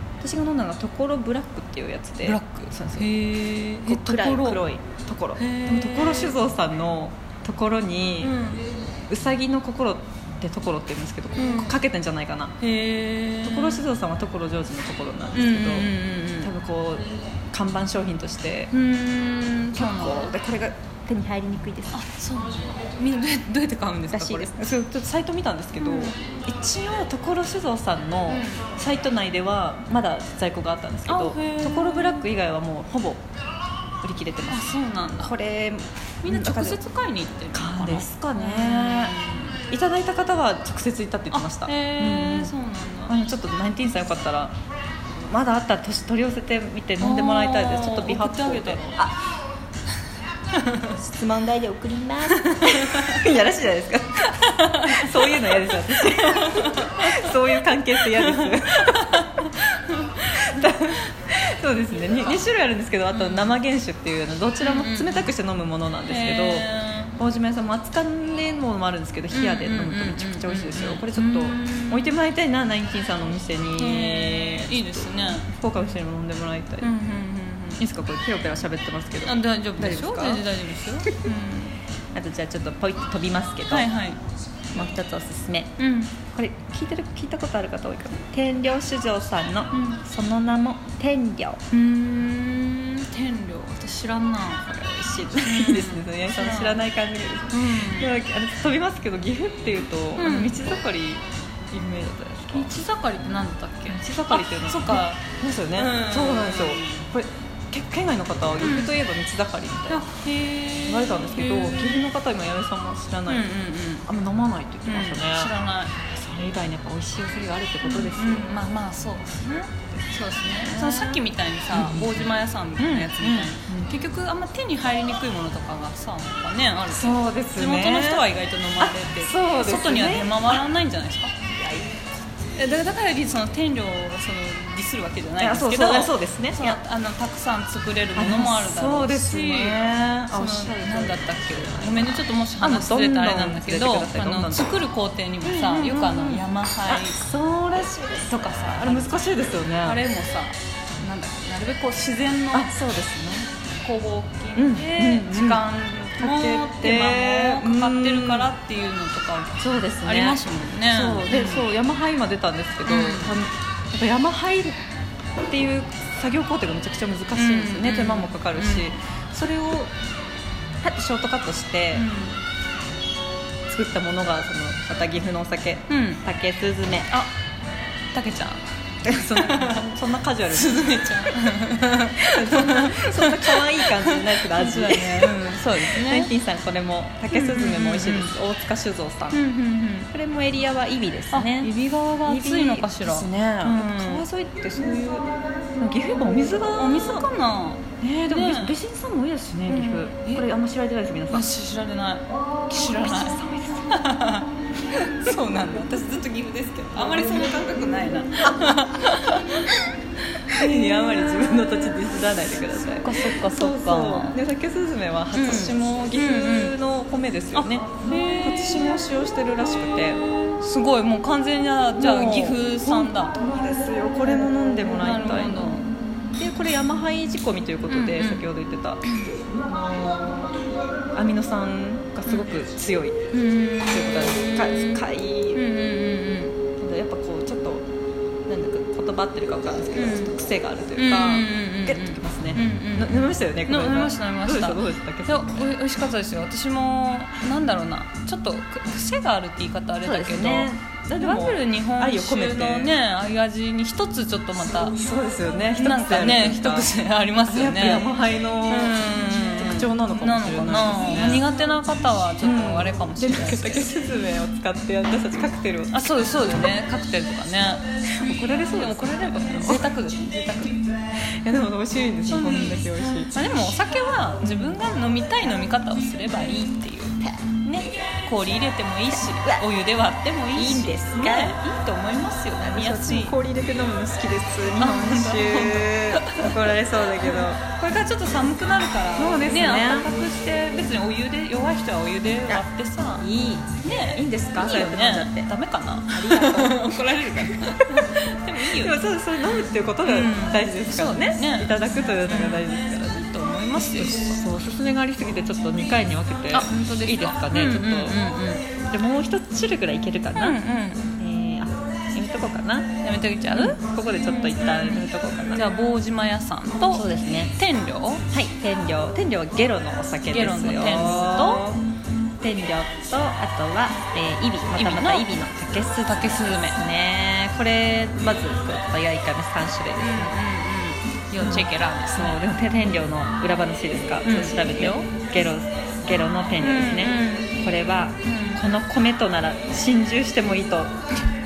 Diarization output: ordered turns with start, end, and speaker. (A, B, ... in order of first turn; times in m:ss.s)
0:00.2-0:03.1 A
0:02.2-0:04.6 B
0:03.9-0:08.4 A
0:05.4-0:06.4 B
0:08.2-0:08.6 B
0:09.1-0:12.5 A
0:11.4-0:11.8 B
0:12.6-0:13.8 B
0:13.4-0:18.7 A
0:15.3-0:16.5 B
0:18.7-0:20.3 B
0:19.8-0:22.0 A
0:21.9-0:24.6 B
0:24.1-0:33.2 A
0:25.8-0:26.2 B
0:28.3-0:28.6 B
0:31.1-0:32.3 B
0:34.0-0:36.8 A
0:34.5-0:35.4 B
0:36.2-0:39.6 B
0:37.5-0:39.2 A
0:39.7-0:42.5 A
0:41.3-0:43.2 B
0:43.1-0:44.6 A
0:45.2-0:49.2 A
0:47.0-0:49.0 B
0:50.5-0:50.9 B
0:50.9-0:59.2 A
0:52.4-0:53.3 B
0:54.3-0:55.5 B
0:56.1-0:57.1 B
0:58.1-1:00.8 B
1:00.3-1:16.9 A
1:03.1-1:03.6 B
1:04.6-1:05.3 B
1:06.1-1:07.2 B
1:09.3-1:12.1 B
1:13.8-1:15.5 B
1:16.8-1:17.9 B
1:17.8-1:20.4 A
1:19.2-1:21.8 B
1:22.1-1:23.9 A
1:23.7-1:24.2 B
1:24.7-1:25.7 A
1:25.8-1:26.2 B
1:26.3-1:31.6 A
1:29.7-1:30.0 B
1:31.7-1:34.7 B
1:34.7-1:42.8 A
1:35.4-1:36.8 B
1:37.5-1:38.1 B
1:40.2-1:40.6 B
1:42.5-1:45.2 B
1:43.9-1:50.1 A
1:45.8-1:47.1 B
1:48.6-1:49.0 B
1:49.9-1:52.1 B
1:50.8-1:53.5 A
1:53.3-1:54.1 B
1:54.1-1:55.5 A
1:54.8-1:56.0 B
1:56.1-1:58.5 A
1:57.8-2:11.3 B
2:00.4-2:01.2 A
2:01.7-2:02.2 A
2:02.8-2:03.9 A
2:06.9-2:08.2 A
2:08.8-2:10.6 A
2:11.6-2:12.1 A
2:12.6-2:27.2 B
2:15.4-2:16.8 A
2:18.2-2:24.7 A
2:25.4-2:30.0 A
2:28.3-2:32.7 B
2:32.5-2:33.5 A
2:33.8-2:41.7 B
2:34.6-2:35.6 A
2:36.2-2:38.5 A
2:39.6-2:44.8 A
2:42.8-2:43.4 B
2:45.4-2:49.0 A
2:47.3-2:49.9 B
2:49.6-2:49.9 A
2:50.8-2:52.1 A
2:51.9-2:52.4 B
2:53.7-2:57.1 A
2:55.9-2:56.2 B
2:58.1-2:59.9 B
2:59.0-3:00.9 A
3:00.5-3:06.3 B
3:02.2-3:09.4 A
3:07.3-3:08.3 B
3:09.3-3:10.1 B
3:10.1-3:11.7 A
3:11.3-3:14.3 B
3:12.3-3:17.3 A
3:16.8-3:18.8 B
3:18.0-3:21.5 A
3:19.7-3:20.5 B
3:21.3-3:29.8 B
3:22.7-3:24.0 A
3:30.3-3:31.2 B
3:30.5-3:40.2 A
3:32.9-3:34.4 B
3:35.3-3:36.8 B
3:37.6-3:39.0 B
3:39.8-3:43.3 B
3:42.0-3:45.7 A
3:44.8-3:45.9 B
3:46.4-3:50.6 A
3:47.9-3:48.5 B
3:49.0-3:49.4 B
3:51.2-3:53.2 A
3:53.3-3:55.0 B
3:53.8-3:55.6 A
3:55.5-3:56.6 B
3:56.8-3:57.9 A
3:58.5-4:05.5 A
3:59.9-4:00.3 B
4:01.0-4:15.0 B
4:10.0-4:12.9 A
4:15.0-4:16.9 A
4:15.8-4:18.1 B
4:17.5-4:19.0 A
4:18.7-4:23.9 B
4:19.5-4:21.4 A
4:22.4-4:26.0 A
4:25.9-4:30.8 B
4:28.2-4:29.9 A
4:31.4-4:33.4 A
4:32.2-4:43.4 B
4:34.4-4:34.8 A
4:39.1-4:39.6 A
4:40.5-4:41.6 A
4:42.6-4:47.6 A
4:44.8-4:46.7 B
4:47.2-4:53.3 B
4:49.2-4:50.1 A
4:53.2-4:55.5 A
4:53.8-4:59.0 B
4:56.1-4:57.7 A
4:58.6-5:08.2 A
5:00.0-5:04.5 B
5:06.5-5:08.6 B
5:08.9-5:10.6 A
5:10.4-5:11.1 B
5:11.2-5:12.9 A
5:13.0-5:18.2 B
5:13.5-5:15.7 A
5:16.9-5:17.5 A
5:18.3-5:21.8 A
5:20.3-5:21.7 B
5:22.4-5:30.3 A
5:24.7-5:25.3 B
5:25.8-5:26.8 B
5:30.0-5:32.4 B
5:31.4-5:41.0 A
5:34.2-5:35.0 B
5:36.6-5:37.6 B
5:38.2-5:38.6 B